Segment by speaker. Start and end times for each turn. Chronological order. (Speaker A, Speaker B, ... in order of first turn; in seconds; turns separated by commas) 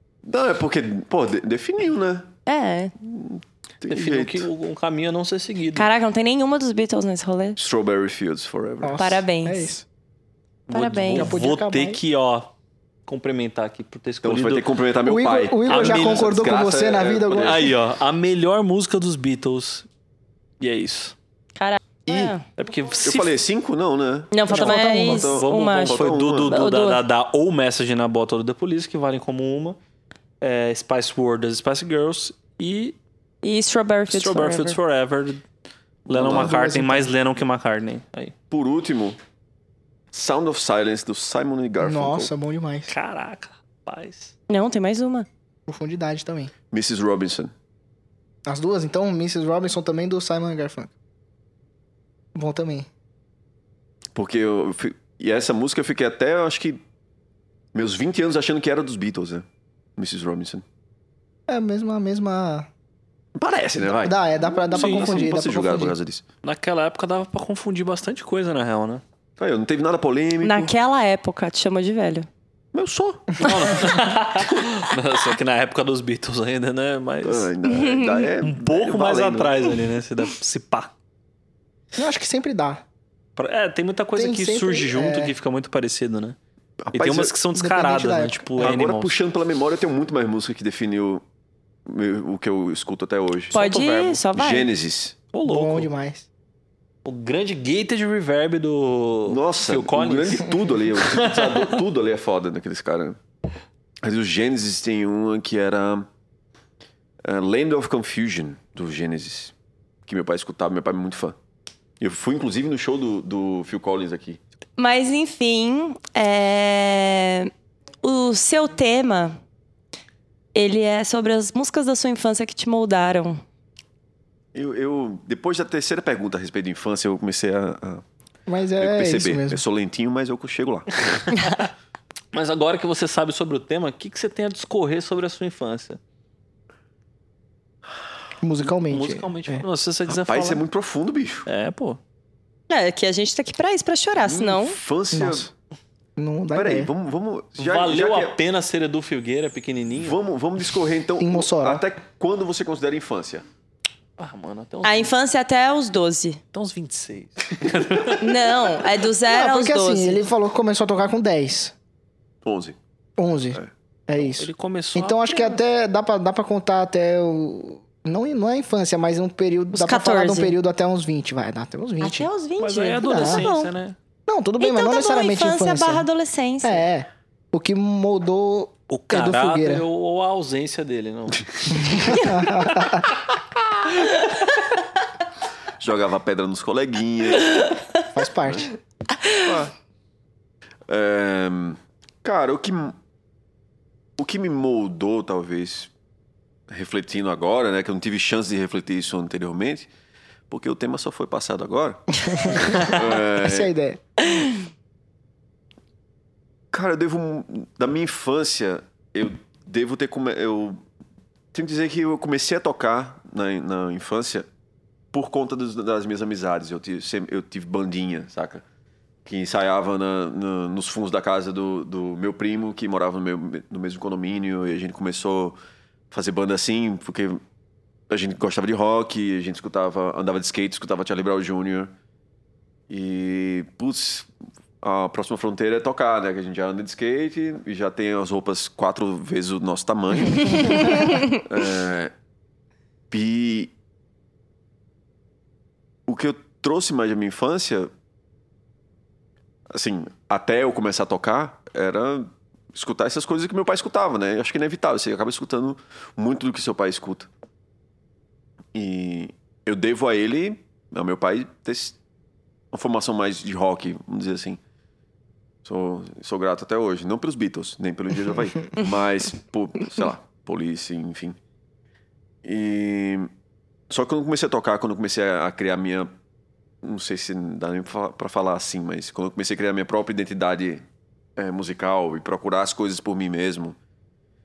Speaker A: 0.2-2.3, Speaker B: 2.5-2.9, Speaker A: 3.0-4.5, Speaker C: 3.9-5.9, Speaker B: 5.7-7.6, Speaker A: 7.6-9.0, Speaker D: 8.8-9.8, Speaker B: 9.0-9.7, Speaker B: 10.7-11.3, Speaker C: 10.7-12.5, Speaker D: 11.1-12.0, Speaker C: 13.1-14.7, Speaker A: 14.2-17.8, Speaker D: 15.1-17.8, Speaker C: 15.7-16.3, Speaker C: 17.3-19.9, Speaker C: 20.6-21.1, Speaker B: 21.6-22.4, Speaker A: 22.1-22.3, Speaker C: 22.6-23.3, Speaker A: 23.0-26.6, Speaker B: 24.3-27.0, Speaker D: 24.5-25.3, Speaker C: 24.5-29.8, Speaker C: 30.4-33.0, Speaker B: 33.4-34.8, Speaker C: 34.1-35.4, Speaker C: 36.1-38.3, Speaker A: 36.1-36.5, Speaker D: 36.1-37.1, Speaker A: 38.5-39.2, Speaker A: 40.1-42.3, Speaker D: 41.8-42.9, Speaker C: 42.9-44.3, Speaker B: 44.5-45.3, Speaker D: 45.7-46.5, Speaker A: 46.7-47.5, Speaker D: 48.5-50.9, Speaker D: 52.3-52.9, Speaker A: 54.1-56.8, Speaker A: 57.7-59.5, Speaker A: 60.0-60.6, Speaker D: 61.5-62.7, Speaker A: 63.4-66.2, Speaker D: 63.8-65.9, Speaker C: 64.7-65.3, Speaker C: 66.4-69.0, Speaker A: 69.4-70.7, Speaker B: 70.4-72.3, Speaker A: 72.7-73.5, Speaker C: 73.4-77.5, Speaker A: 77.2-79.7, Speaker B: 77.7-78.2, Speaker C: 78.4-80.9, Speaker D: 82.0-82.8, Speaker C: 83.4-86.3, Speaker D: 84.2-85.3, Speaker A: 86.8-87.3, Speaker C: 86.9-89.2, Speaker D: 87.5-88.8, Speaker A: 88.6-91.2, Speaker A: 91.9-93.5, Speaker C: 93.5-94.2, Speaker B: 93.5-94.7, Speaker A: 94.3-95.2, Speaker C: 95.3-95.9, Speaker D: 95.4-96.2, Speaker C: 97.0-101.8, Speaker A: 99.2-103.2, Speaker A: 104.0-106.1, Speaker A: 107.2-109.5, Speaker A: 110.0-111.3, Speaker A: 112.0-114.4, Speaker B: 114.8-117.5, Speaker B: 118.0-119.4, Speaker B: 120.5-123.4, Speaker A: 124.5-128.0, Speaker D: 128.5-129.6, Speaker A: 128.8-131.3, Speaker C: 132.3-136.0, Speaker D: 138.4-139.6, Speaker C: 138.6-140.6, Speaker A: 140.1-141.5, Speaker C: 141.5-142.0, Speaker B: 142.7-144.8, Speaker A: 144.2-145.5, Speaker D: 145.1-145.5, Speaker D: 146.2-146.9, Speaker A: 146.5-148.4, Speaker C: 147.6-150.2, Speaker A: 150.0-153.4, Speaker D: 151.2-151.8, Speaker C: 154.2-155.1, Speaker B: 154.8-156.4, Speaker C: 156.5-158.3, Speaker B: 158.1-160.2, Speaker D: 159.3-161.7, Speaker A: 162.4-162.8, Speaker D: 163.2-172.3, Speaker C: 164.2-165.6, Speaker B: 169.7-170.6, Speaker B: 172.0-173.7, Speaker C: 172.6-173.9, Speaker D: 173.1-173.4, Speaker D: 174.3-176.1, Speaker B: 174.6-176.8, Speaker D: 176.6-179.8, Speaker C: 178.9-182.3, Speaker D: 181.7-183.1, Speaker B: 184.0-184.5, Speaker A: 185.8-187.6, Speaker D: 188.1-188.7, Speaker A: 189.4-189.7, Speaker A: 190.9-192.9, Speaker A: 194.2-195.9, Speaker A: 196.7-199.9, Speaker A: 200.5-203.7, Speaker D: 202.2-204.0, Speaker A: 206.7-210.8, Speaker A: 211.5-214.5, Speaker A: 215.1-218.6, Speaker A: 219.2-225.6, Speaker A: 226.1-227.4, Speaker A: 228.1-231.9, Speaker A: 232.9-234.3, Speaker A: 234.8-242.1, Speaker B: 240.6-241.3, Speaker A: 243.1-243.7, Speaker A: 246.1-247.9, Speaker A: 249.7-257.3, Speaker A: 258.7-262.0, Speaker A: 262.7-264.6, Speaker A: 265.6-271.4, Speaker A: 272.4-273.3, Speaker A: 273.9-276.1, Speaker A: 276.8-280.8, Speaker A: 281.4-283.8